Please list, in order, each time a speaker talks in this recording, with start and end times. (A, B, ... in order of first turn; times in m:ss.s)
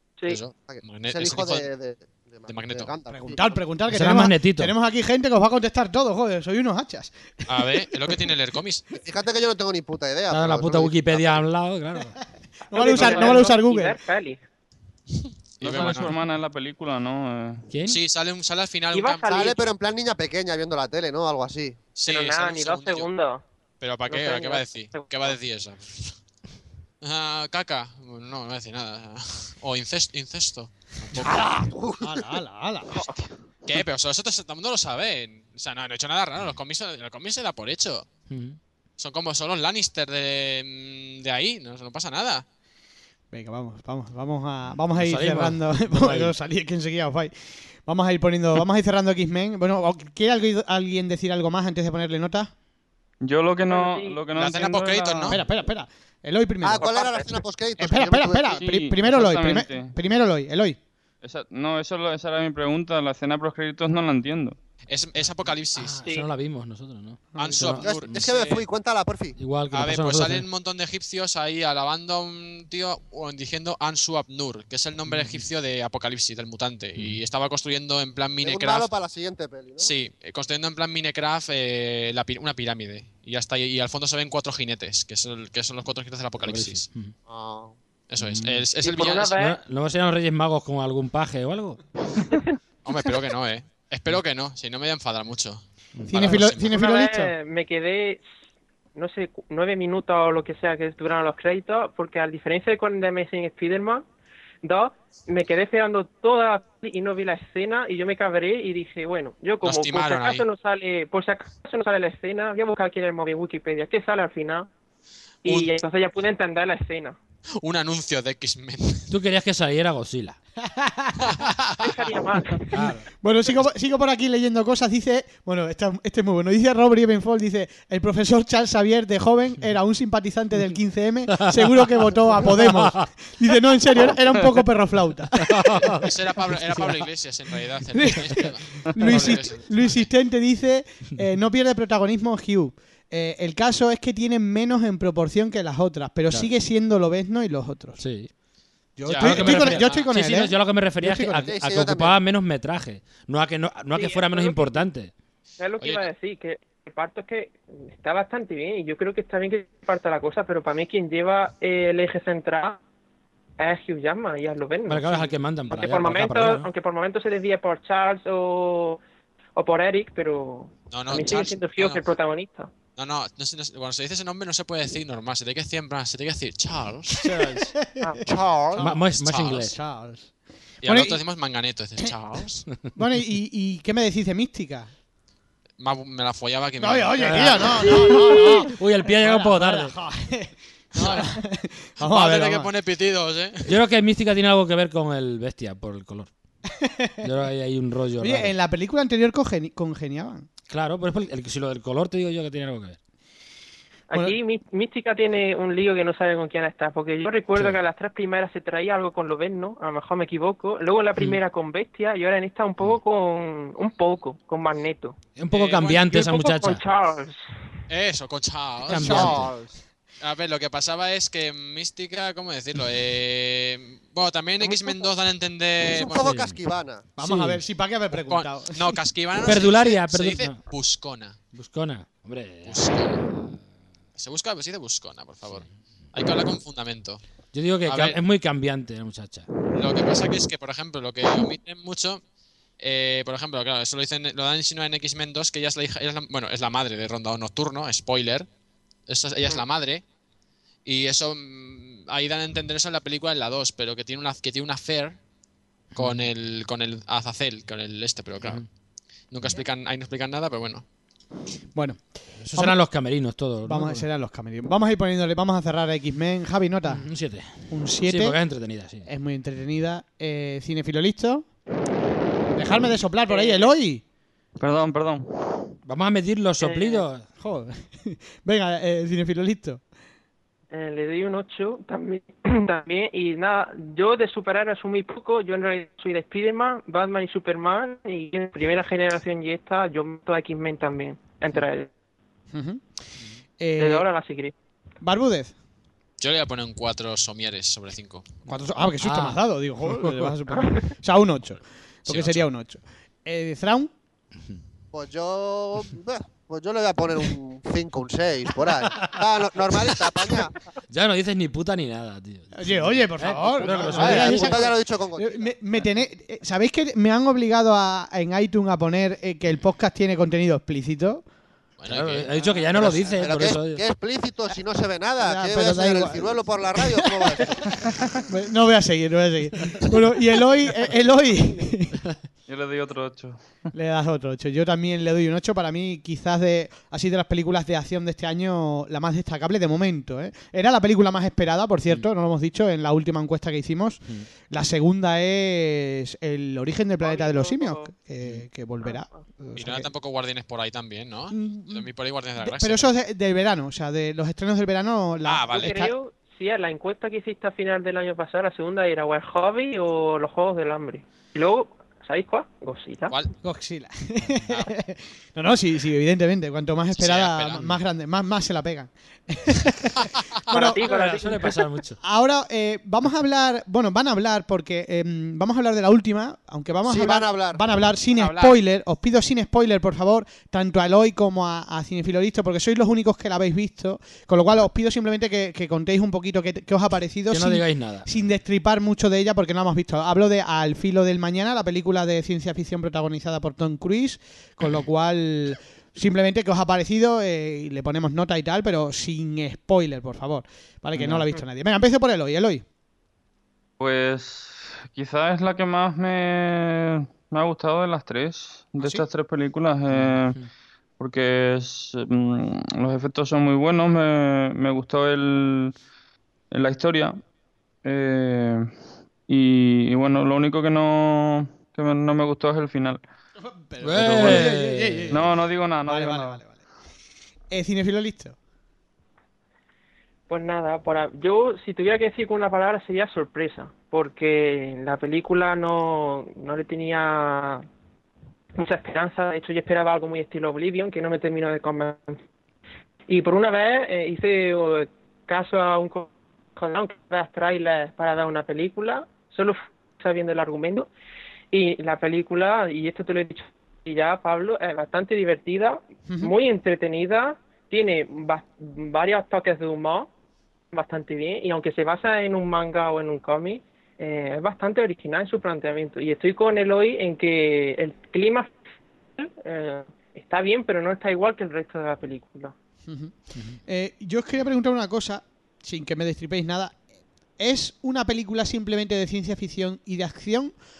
0:00.3-0:01.7 A
0:00.7-0:03.5 B
0:02.5-0:02.9 A
0:03.1-0:08.2 C
0:03.9-0:04.7 D
0:07.5-0:08.8 A
0:08.9-0:11.4 B
0:10.3-0:12.2 D
0:12.7-0:14.0 C
0:12.7-0:14.4 E
0:13.0-0:13.4 F
0:15.6-0:16.1 A
0:15.6-0:17.7 F
0:17.7-0:18.0 D
0:17.9-0:19.5 A
0:18.9-0:19.6 E
0:19.3-0:21.8 B
0:21.9-0:23.1 A
0:22.0-0:23.4 E
0:23.8-0:26.2 A
0:24.1-0:25.4 E
0:27.0-0:31.4 A
0:31.2-0:33.0 C
0:31.5-0:32.2 B
0:32.9-0:33.2 E
0:33.6-0:38.1 A
0:38.3-0:38.6 D
0:39.0-0:42.4 A
0:43.3-0:52.5 C
0:44.9-0:46.3 D
0:53.2-0:55.4 F
0:53.6-0:54.2 E
0:54.4-0:55.4 A
0:55.2-0:57.0 C
0:56.6-0:58.6 B
0:56.8-0:57.3 E
0:57.8-1:00.8 C
0:58.6-0:59.9 F
1:01.2-1:04.6 F
1:04.9-1:06.0 A
1:05.8-1:08.3 D
1:06.0-1:06.3 E
1:07.3-1:07.7 C
1:07.4-1:08.6 A
1:07.8-1:09.4 B
1:09.4-1:10.4 D
1:09.7-1:18.9 A
1:15.1-1:15.4 D
1:18.4-1:19.9 B
1:19.8-1:26.9 A
1:26.4-1:27.1 D
1:27.3-1:27.7 B
1:28.1-1:29.3 A
1:28.2-1:28.7 D
1:28.8-1:29.6 E
1:29.4-1:31.8 D
1:32.8-1:36.7 A
1:36.0-1:36.5 D
1:36.1-1:37.3 C
1:36.7-1:38.2 E
1:38.9-1:44.0 E
1:44.6-1:54.7 E
1:49.6-1:50.4 A
1:55.4-1:57.2 E
1:55.4-1:55.7 A
1:57.6-1:59.1 A
1:59.1-2:00.4 D
2:00.6-2:01.3 C
2:01.2-2:01.9 A
2:01.8-2:02.9 E
2:02.7-2:03.0 D
2:02.8-2:16.1 C
2:11.4-2:13.1 D
2:15.4-2:16.1 D
2:16.0-2:20.1 A
2:18.0-2:28.0 C
2:28.0-2:28.3 D
2:29.0-2:31.5 C
2:29.1-2:30.1 A
2:29.1-2:35.1 D
2:31.4-2:32.2 B
2:33.9-2:34.8 E
2:35.6-2:42.8 E
2:35.8-2:36.1 A
2:43.6-2:49.0 E
2:44.9-2:46.7 D
2:49.6-2:52.7 E
2:50.9-2:52.0 A
2:53.0-2:57.4 A
2:57.2-2:57.7 D
2:57.6-2:59.0 C
2:58.2-2:58.8 B
2:58.8-2:59.8 D
2:59.1-2:59.7 A
2:59.6-3:00.3 C
3:00.8-3:01.2 C
3:00.8-3:02.6 A
3:02.9-3:04.9 C
3:05.8-3:07.7 A
3:06.8-3:12.7 C
3:07.1-3:09.9 D
3:11.0-3:11.3 A
3:12.0-3:13.8 A
3:13.7-3:16.3 D
3:16.8-3:17.3 C
3:17.2-3:18.5 D
3:18.2-3:20.5 C
3:20.7-3:23.0 D
3:24.1-3:35.2 E
3:35.4-3:36.8 D
3:35.5-3:36.2 A
3:36.1-3:37.5 E
3:37.9-3:39.4 A
3:38.9-3:39.5 D
3:38.9-3:39.7 C
3:40.2-3:46.4 A
3:44.6-3:45.1 E
3:45.9-3:47.1 B
3:46.2-3:46.6 D
3:47.2-3:49.0 C
3:47.2-3:47.6 D
3:48.1-3:51.4 A
3:49.4-3:50.6 D
3:51.5-3:53.6 D
3:52.6-3:53.2 A
3:54.2-3:57.2 A
3:57.5-3:59.5 D
3:57.8-3:58.2 A
3:59.7-4:02.2 A
4:02.8-4:08.5 A
4:09.1-4:10.0 A
4:10.8-4:15.2 A
4:15.9-4:16.3 D
4:16.0-4:18.6 A
4:18.4-4:18.6 D
4:19.3-4:20.8 A
4:21.7-4:22.0 C
4:22.4-4:24.0 D
4:22.5-4:22.8 C
4:23.6-4:27.0 C
4:26.9-4:29.0 D
4:27.7-4:28.4 C
4:29.0-4:31.4 C
4:32.5-4:34.0 C
4:33.3-4:33.7 E
4:34.6-4:35.7 F
4:35.8-4:37.2 D
4:36.6-4:37.0 E
4:37.4-4:39.8 C
4:40.7-4:51.9 E
4:52.5-4:52.8 C
4:53.6-4:54.1 C
4:53.8-4:54.5 E
4:55.0-4:55.5 C
4:56.2-4:58.2 A
4:58.5-5:03.9 C
4:59.0-4:59.4 D
4:59.9-5:00.3 D
5:00.5-5:00.8 E
5:02.1-5:02.5 A
5:04.9-5:10.5 B
5:08.9-5:09.2 D
5:10.9-5:14.6 D
5:12.5-5:21.2 C
5:13.6-5:15.5 B
5:21.8-5:22.3 A
5:21.9-5:23.8 D
5:22.7-5:27.7 B
5:25.2-5:27.6 C
5:28.2-5:32.0 C
5:32.5-5:33.7 F
5:33.7-5:49.9 C
5:47.0-5:47.9 E
5:48.8-5:49.2 E
5:49.6-5:52.9 A
5:51.3-5:55.9 C
5:55.2-5:55.8 A
5:55.5-6:03.1 E
6:03.4-6:10.9 C
6:07.0-6:07.6 A
6:10.5-6:11.6 E
6:10.5-6:12.0 D
6:12.0-6:42.6 C
6:16.9-6:17.6 B
6:18.2-6:18.6 A
6:27.3-6:28.1 D
6:41.0-6:41.3 D
6:43.8-6:50.4 F
6:49.9-6:50.5 D
6:51.0-6:55.7 F
6:56.5-6:57.2 F
6:57.8-7:03.0 F
7:03.4-7:05.3 C
7:03.8-7:05.2 D
7:04.0-7:04.5 F
7:05.1-7:06.4 F
7:05.8-7:06.6 C
7:07.5-7:08.4 C
7:10.3-7:17.6 E
7:18.5-7:22.2 E
7:23.1-7:30.9 E
7:31.5-7:40.1 E
7:36.1-7:36.3 C
7:40.7-7:48.5 E
7:49.2-7:52.5 E
7:52.9-7:56.8 C
7:57.4-8:00.5 C